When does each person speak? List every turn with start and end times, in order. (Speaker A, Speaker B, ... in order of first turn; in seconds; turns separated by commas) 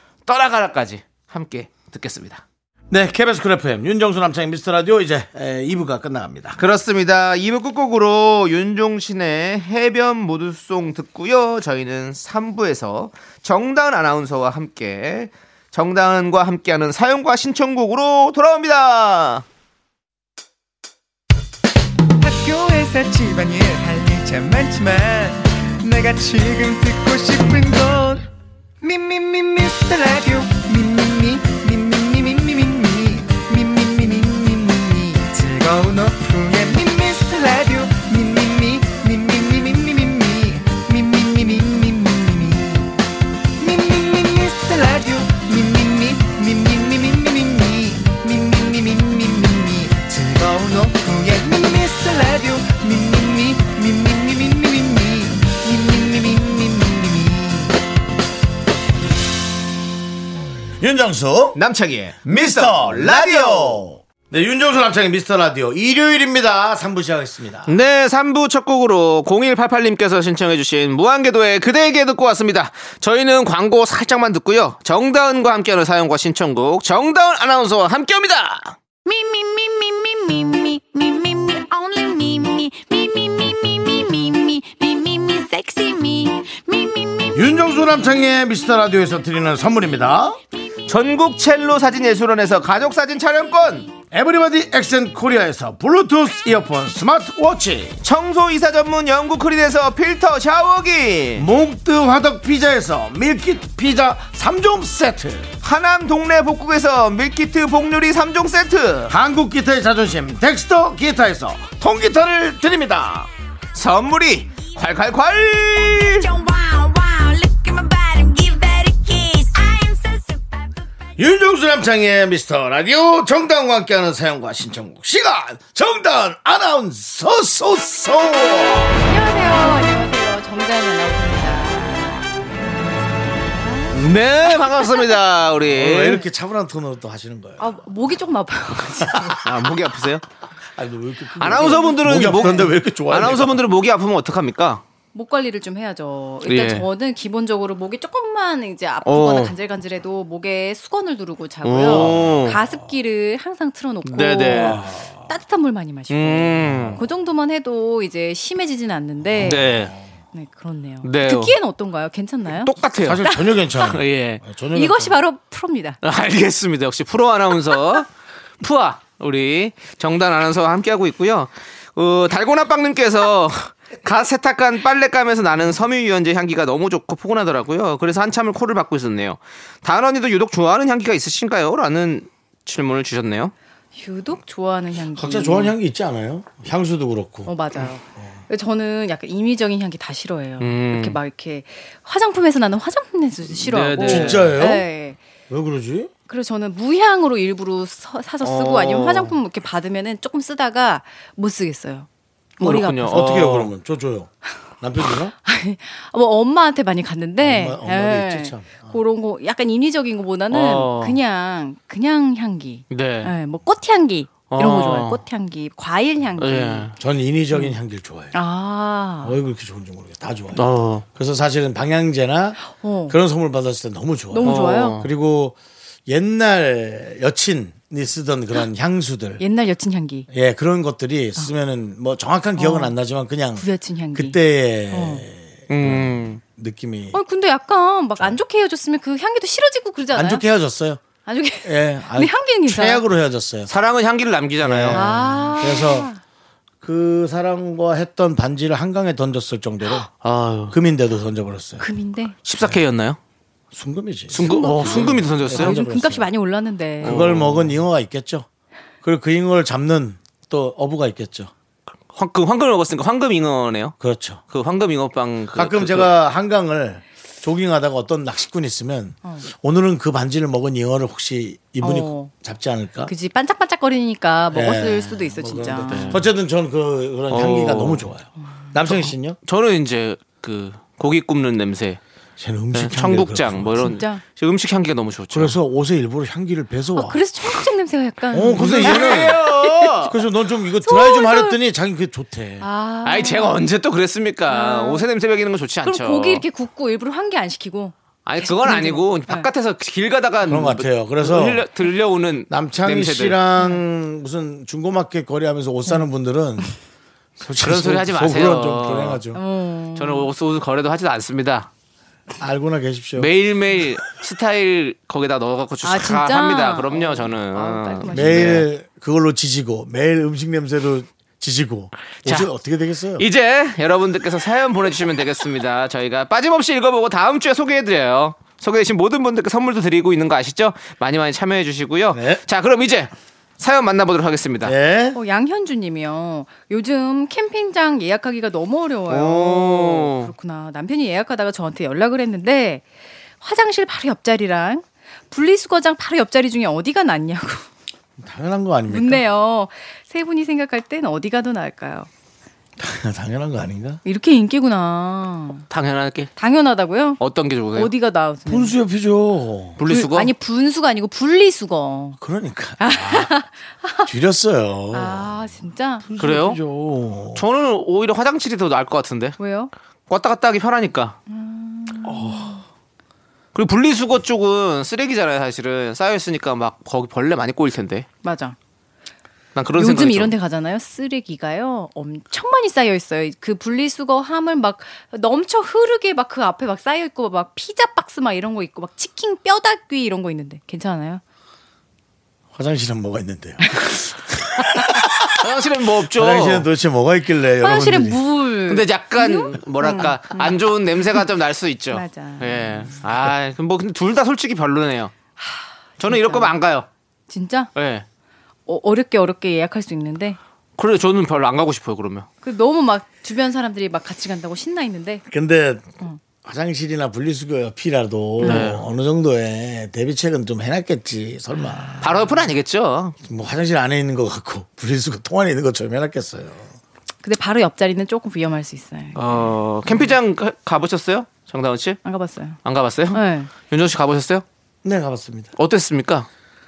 Speaker A: 0.2-2.4, Speaker B: 2.9-6.6, Speaker A: 6.6-19.4, Speaker C: 22.2-28.3, Speaker C: 28.8-42.9, Speaker C: 43.6-57.7, Speaker B: 60.8-61.6, Speaker A: 61.5-63.8, Speaker B: 62.2-67.8, Speaker A: 67.7-78.8, Speaker D: 80.5-81.0, Speaker D: 81.6-82.8, Speaker D: 84.0-87.2, Speaker B: 87.3-90.4, Speaker A: 90.9-93.9, Speaker B: 94.1-98.0, Speaker A: 98.0-101.5, Speaker B: 101.3-105.5, Speaker A: 105.6-109.1, Speaker B: 109.1-113.3, Speaker A: 113.7-116.3, Speaker D: 116.3-120.3, Speaker B: 121.2-129.0, Speaker E: 129.1-135.2, Speaker A: 133.9-136.2, Speaker B: 135.6-137.8, Speaker E: 137.6-139.4, Speaker B: 139.0-139.4, Speaker A: 139.4-140.2, Speaker B: 140.7-143.6, Speaker A: 141.4-144.8, Speaker E: 141.5-142.6, Speaker E: 145.1-159.7, Speaker A: 146.4-146.8, Speaker A: 149.0-149.5, Speaker A: 151.6-152.6, Speaker B: 151.8-152.5, Speaker A: 154.0-154.8, Speaker B: 154.5-155.2, Speaker A: 156.1-157.0, Speaker B: 156.6-157.0, Speaker B: 159.3-160.1, Speaker A: 159.4-159.9, Speaker E: 160.3-164.0, Speaker A: 161.0-161.5, Speaker A: 162.6-164.4, Speaker B: 163.0-165.2, Speaker E: 164.7-166.0, Speaker A: 166.0-168.1, Speaker A: 168.6-183.5, Speaker E: 183.9-185.7, Speaker B: 185.1-187.5, Speaker E: 187.4-195.2, Speaker A: 190.6-191.2, Speaker A: 193.6-194.6, Speaker B: 194.0-194.8, Speaker B: 195.5-196.1, Speaker E: 196.3-202.1, Speaker A: 198.4-199.3, Speaker E: 202.6-203.3, Speaker A: 202.6-203.7, Speaker B: 203.1-204.3, Speaker B: 204.8-205.3, Speaker E: 205.4-216.9, Speaker B: 207.4-209.0, Speaker A: 210.5-211.2, Speaker A: 212.9-213.3, Speaker A: 214.5-215.2, Speaker A: 216.4-216.9, Speaker B: 216.9-218.3, Speaker E: 218.3-219.3, Speaker B: 219.2-229.4, Speaker A: 220.5-221.0, Speaker E: 222.6-223.2, Speaker E: 224.3-225.0, Speaker A: 224.4-225.1, Speaker E: 229.4-230.3, Speaker B: 230.3-237.2, Speaker E: 232.6-232.9, Speaker E: 233.6-234.4, Speaker E: 234.9-235.2, Speaker A: 235.7-236.4, Speaker E: 237.1-240.4, Speaker B: 240.1-241.0, Speaker E: 241.2-243.0, Speaker B: 241.6-243.7, Speaker A: 243.7-245.0, Speaker B: 244.6-246.1, Speaker E: 244.9-246.2, Speaker B: 246.8-250.1, Speaker A: 250.2-250.8, Speaker B: 250.7-251.9, Speaker E: 251.8-252.3, Speaker A: 252.4-253.2, Speaker B: 253.7-256.3, Speaker A: 254.3-255.8, Speaker E: 254.4-257.2, Speaker A: 257.0-257.8, Speaker B: 257.0-258.4, Speaker B: 259.0-261.5, Speaker A: 262.1-263.9, Speaker B: 264.0-264.4, Speaker A: 264.5-266.1, Speaker B: 265.5-273.1, Speaker E: 269.2-269.5, Speaker E: 271.8-272.3, Speaker E: 273.0-276.2, Speaker B: 274.5-279.4, Speaker A: 275.9-276.3, Speaker A: 277.3-278.1, Speaker A: 278.8-282.0, Speaker B: 282.4-284.0, Speaker A: 282.7-285.6, Speaker E: 283.8-284.2, Speaker B: 285.3-287.2, Speaker E: 286.9-290.1, Speaker B: 288.3-289.4, Speaker A: 288.6-290.1, Speaker B: 290.0-292.6, Speaker E: 290.8-291.6, Speaker E: 292.6-293.6, Speaker A: 293.0-296.4, Speaker E: 294.5-295.1, Speaker E: 295.8-299.5, Speaker A: 298.2-303.4, Speaker B: 300.4-301.6, Speaker B: 302.5-306.7, Speaker B: 307.4-309.4, Speaker A: 307.6-309.2, Speaker E: 309.3-310.3, Speaker A: 309.9-311.7, Speaker B: 312.4-313.3, Speaker A: 313.2-318.7, Speaker E: 315.8-318.6, Speaker B: 318.1-323.2, Speaker A: 322.2-322.5, Speaker A: 323.2-334.7, Speaker B: 332.1-332.4, Speaker B: 334.6-335.2, Speaker E: 335.1-342.8, Speaker A: 339.1-340.3, Speaker E: 343.4-347.6, Speaker B: 348.2-349.2, Speaker E: 348.9-352.1, Speaker B: 352.8-354.0, Speaker E: 354.0-355.6, Speaker A: 355.7-356.3, Speaker E: 356.4-357.2, Speaker A: 357.2-357.9, Speaker E: 357.7-358.7, Speaker B: 358.5-359.8, Speaker A: 359.8-360.3, Speaker E: 359.8-362.2, Speaker B: 362.2-363.3, Speaker E: 362.8-364.1, Speaker B: 364.1-365.4, Speaker E: 364.9-366.1, Speaker B: 366.0-367.4, Speaker A: 366.2-366.6, Speaker A: 367.3-369.4, Speaker E: 369.4-369.7, Speaker A: 370.1-371.2, Speaker E: 371.3-372.6, Speaker B: 372.0-372.6, Speaker A: 373.5-378.1, Speaker E: 378.2-378.6, Speaker A: 379.5-380.3, Speaker E: 379.8-391.2, Speaker B: 392.5-395.4, Speaker E: 393.6-393.9, Speaker A: 395.3-396.7, Speaker B: 396.0-398.2, Speaker E: 397.6-401.3, Speaker A: 398.7-405.1, Speaker E: 401.9-403.0, Speaker E: 405.4-406.5, Speaker A: 406.0-406.9, Speaker E: 407.3-407.7, Speaker A: 407.7-408.0, Speaker E: 408.7-410.4, Speaker A: 410.8-412.3, Speaker E: 412.4-415.2, Speaker B: 415.3-415.8, Speaker B: 416.4-422.4, Speaker E: 418.4-418.7, Speaker A: 418.4-418.8, Speaker A: 422.0-423.1, Speaker B: 423.2-426.7, Speaker E: 427.2-429.3, Speaker A: 429.1-432.0, Speaker E: 432.0-433.5, Speaker A: 432.6-434.4, Speaker B: 434.8-435.5, Speaker A: 435.6-436.3